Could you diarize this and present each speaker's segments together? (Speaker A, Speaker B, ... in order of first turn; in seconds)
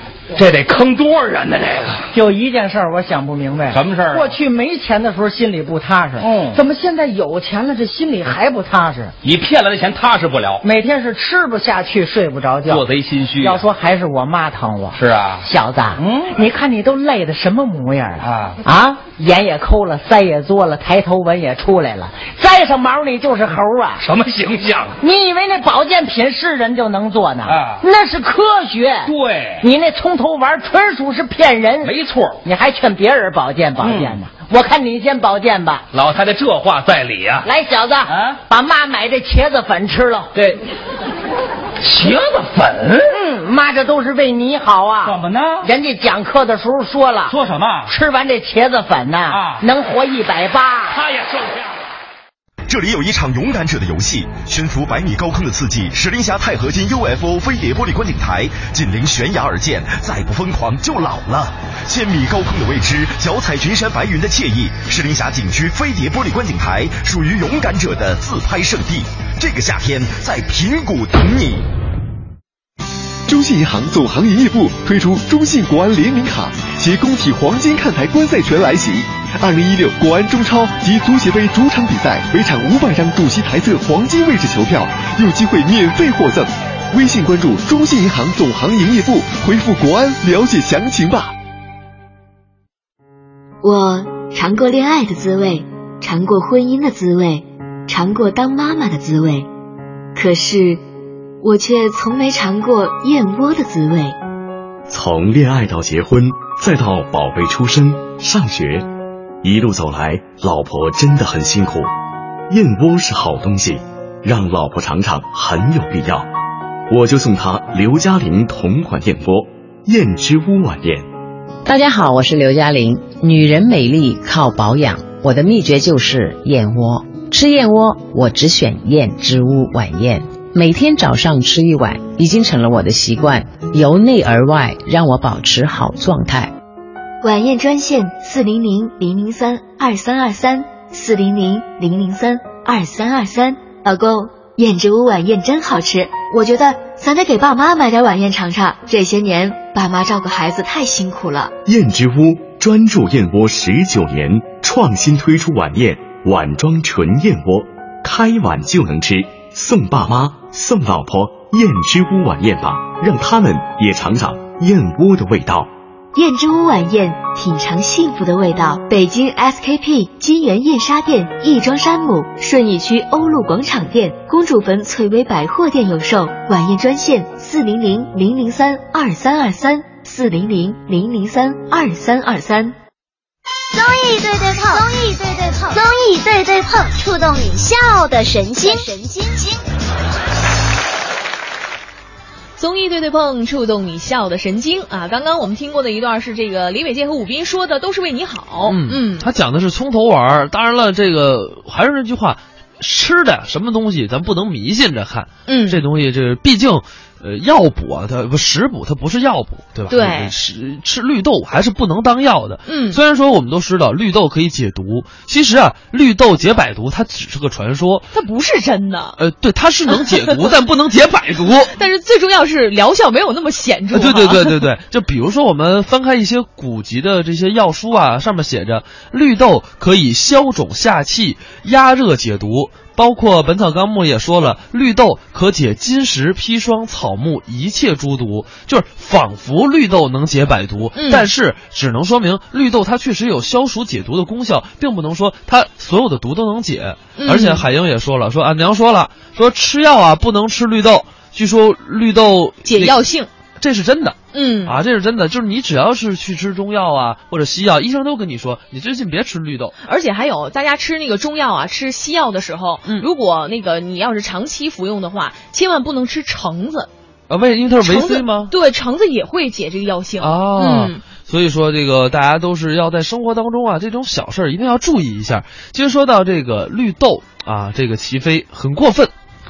Speaker A: 0.3-2.1, 3.7-4.3, 6.2-6.6, 9.2-10.6, 12.7-13.6, 14.9-15.4, 16.0-16.4, 18.2-18.6, 24.0-25.0, 27.4-27.8, 29.0-29.6, 31.8-32.4, 33.8-34.2, 35.9-37.5, 38.1-38.4, 40.3-40.6, 41.8-43.1, 45.0-45.7, 47.3-47.9, 49.3-49.6, 50.9-51.9
Speaker B: 2.1-9.1, 10.6-12.8, 13.4-24.0, 25.0-35.8, 37.4-40.3, 43.1-47.4, 47.9-51.0
Speaker C: 52.7-71.6
Speaker D: 73.3-91.3
Speaker E: 93.6-99.5, 100.1-100.8, 101.4-104.2, 137.2-151.5, 166.1-182.7
Speaker F: 104.9-108.9, 109.4-111.9, 112.5-116.3, 116.9-121.1, 151.6-165.7
Speaker G: 121.7-136.5
Speaker H: 183.7-189.6
Speaker I: 192.6-199.2, 205.4-205.8, 209.9-210.3, 212.7-213.0, 218.1-219.2, 219.9-220.3, 221.7-224.6, 240.9-241.3, 247.2-247.6, 252.6-253.3, 254.3-254.8, 259.8-266.9, 267.8-271.0
Speaker J: 198.7-218.1, 219.2-221.7, 223.9-253.0, 253.6-259.7, 267.3-268.5, 270.2-279.1